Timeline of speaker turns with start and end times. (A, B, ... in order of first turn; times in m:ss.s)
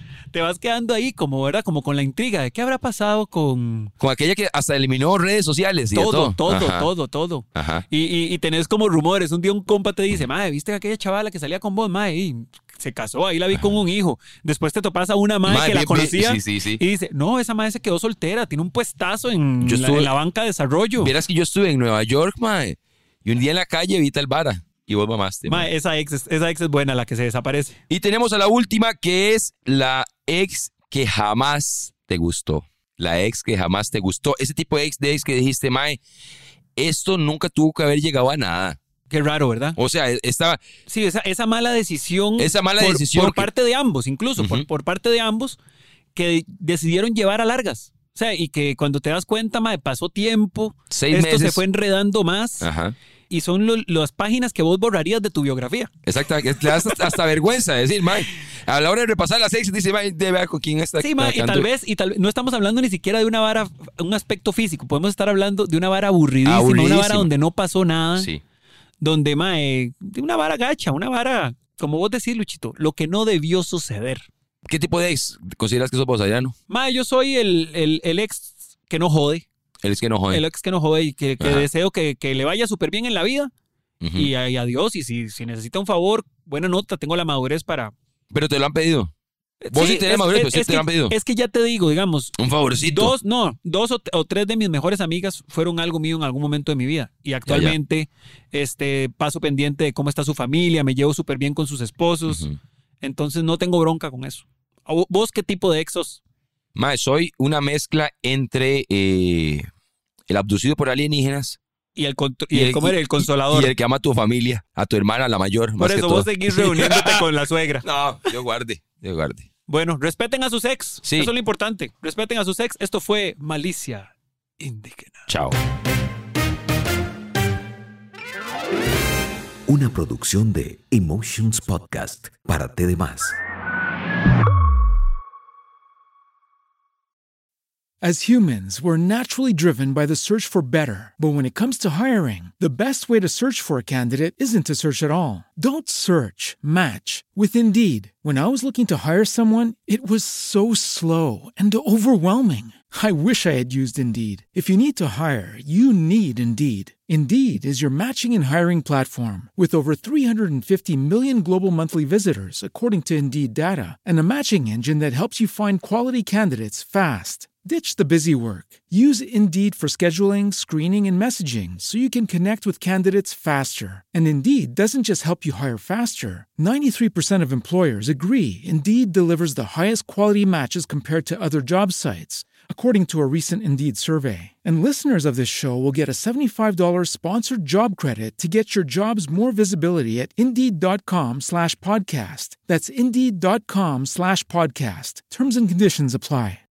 0:00.3-0:03.9 A
0:04.0-0:06.9 B
0:06.0-0:21.1 A
0:07.6-0:07.9 B
0:15.5-0:16.8 B
0:19.6-0:20.1 B
0:21.0-0:25.7 B
0:25.5-0:27.8 A
0:27.9-0:36.0 B
0:36.8-0:38.8 B
0:39.1-0:39.8 A
0:39.8-0:40.6 B
0:40.9-0:45.6 A
0:42.4-0:43.5 B
0:44.4-0:44.6 B
0:46.2-0:52.7 A
0:50.9-0:51.6 B
0:52.6-0:53.0 B
0:53.3-0:55.9 A
0:56.0-1:01.7 B
1:01.0-1:08.3 A
1:06.4-1:07.3 B
1:09.0-1:14.2 A
1:14.7-1:16.6 B
1:16.7-1:19.4 A
1:19.8-1:20.4 B
1:20.3-1:23.5 A
1:21.4-1:21.7 B
1:24.0-1:24.3 B
1:24.2-1:27.9 A
1:28.3-1:29.1 B
1:29.6-1:32.4 A
1:29.7-1:31.2 B
1:32.4-1:33.2 B
1:32.9-1:42.5 A
1:37.5-1:37.8 B
1:42.3-1:42.6 B
1:43.0-1:46.2 A
1:46.8-1:49.7 B
1:50.3-1:51.6 B
1:52.0-1:53.7 A
1:52.5-1:57.3 B
1:55.8-1:57.8 A
1:57.8-1:59.5 B
1:59.7-2:05.3 A
2:01.0-2:01.3 B
2:05.3-2:05.6 B
2:09.7-2:13.4 C
2:18.0-3:16.6 D